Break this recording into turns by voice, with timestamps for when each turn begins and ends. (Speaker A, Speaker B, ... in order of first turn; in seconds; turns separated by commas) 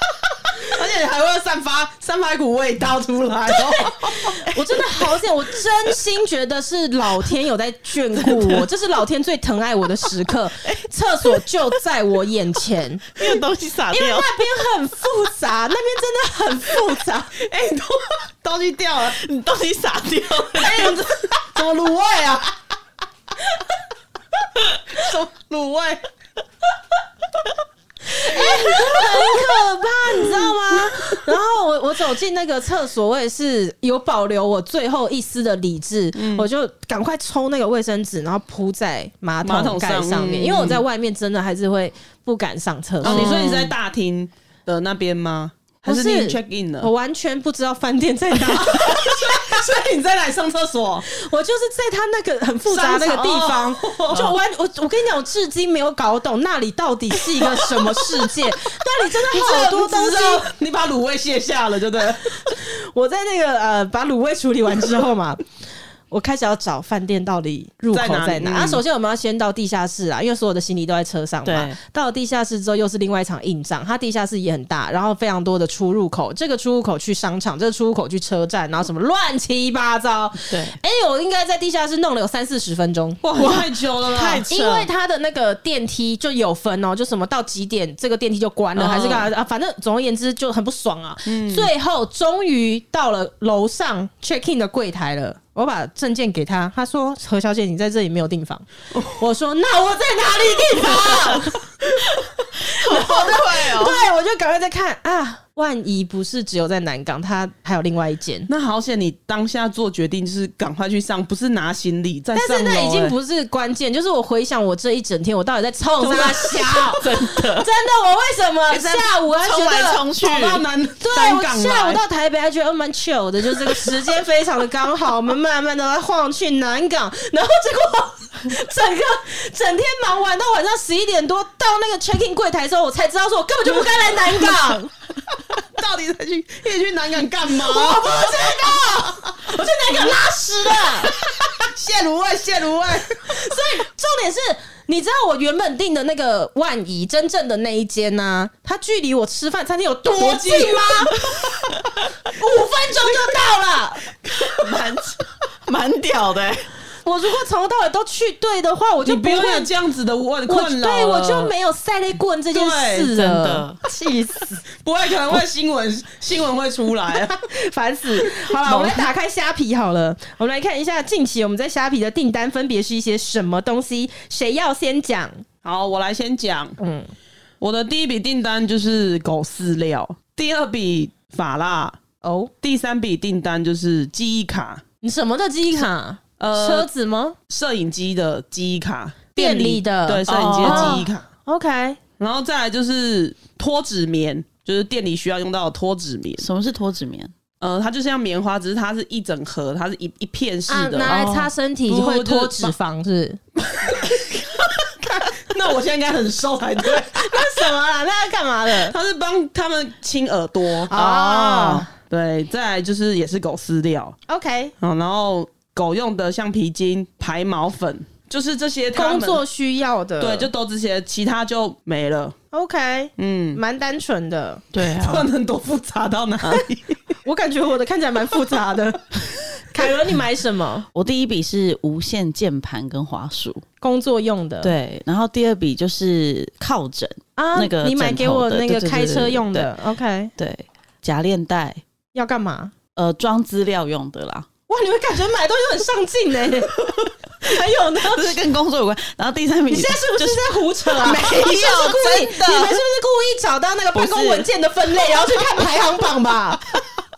Speaker A: 0.6-4.2, Speaker B: 3.5-13.2, Speaker C: 4.5-4.8, Speaker C: 8.2-8.6, Speaker C: 10.6-11.6, Speaker C: 13.1-14.3, Speaker B: 13.9-17.4, Speaker A: 17.4-19.2, Speaker C: 19.0-21.0, Speaker A: 20.5-22.5, Speaker A: 24.9-26.0, Speaker B: 28.1-43.7, Speaker A: 28.4-29.0, Speaker A: 36.1-36.5, Speaker A: 39.4-40.8, Speaker C: 43.0-43.7, Speaker A: 43.0-46.9, Speaker B: 45.8-49.6, Speaker A: 48.5-51.0, Speaker B: 51.0-60.5, Speaker A: 52.7-54.2, Speaker A: 59.2-62.5, Speaker B: 62.4-65.4, Speaker B: 66.1-83.2, Speaker A: 67.9-68.8, Speaker C: 71.4-71.8, Speaker C: 80.5-80.8, Speaker A: 83.2-84.4, Speaker C: 83.3-84.9, Speaker B: 84.2-101.6, Speaker A: 88.8-89.3, Speaker A: 91.2-91.7, Speaker C: 100.8-101.5, Speaker C: 102.6-104.1, Speaker B: 102.7-108.5, Speaker A: 108.5-113.1, Speaker B: 112.3-120.1, Speaker A: 116.1-116.4, Speaker C: 116.2-117.7, Speaker C: 118.7-120.6, Speaker A: 120.2-122.0, Speaker B: 121.0-134.9, Speaker A: 133.7-134.6, Speaker A: 135.6-139.6, Speaker B: 137.5-141.1, Speaker A: 140.8-143.2, Speaker B: 143.2-151.2, Speaker A: 150.1-151.7, Speaker B: 152.3-154.1, Speaker A: 154.3-155.2, Speaker C: 155.6-156.7, Speaker B: 157.0-159.7, Speaker A: 159.0-161.5, Speaker B: 160.5-164.6, Speaker A: 162.5-163.1, Speaker C: 163.1-163.8, Speaker A: 164.8-167.4, Speaker B: 167.2-175.4, Speaker A: 168.3-169.1, Speaker A: 175.6-176.8, Speaker B: 176.8-177.1, Speaker A: 177.6-182.0, Speaker B: 182.2-182.5, Speaker A: 182.6-184.8, Speaker B: 185.0-187.4, Speaker A: 186.4-186.9, Speaker A: 187.5-191.2, Speaker B: 189.3-192.0, Speaker C: 190.3-191.1, Speaker A: 192.2-196.5, Speaker C: 196.4-197.3, Speaker A: 197.6-201.2, Speaker B: 200.7-203.4, Speaker C: 201.1-201.5, Speaker A: 201.9-202.7, Speaker A: 203.6-207.6, Speaker B: 206.8-208.9, Speaker A: 208.8-214.2, Speaker B: 210.9-211.9, Speaker B: 214.3-214.7, Speaker A: 214.8-219.4, Speaker B: 218.9-220.5, Speaker A: 220.2-222.3, Speaker B: 222.5-224.6, Speaker A: 223.2-223.6, Speaker C: 224.7-225.3, Speaker A: 224.9-227.0, Speaker B: 227.2-230.8, Speaker C: 230.9-233.6, Speaker B: 233.8-234.7, Speaker C: 234.6-239.7, Speaker B: 237.3-240.3, Speaker C: 240.4-241.8, Speaker B: 242.1-242.7, Speaker C: 242.9-244.5, Speaker B: 244.7-248.4, Speaker C: 247.9-252.8, Speaker B: 249.7-256.6, Speaker C: 253.9-254.5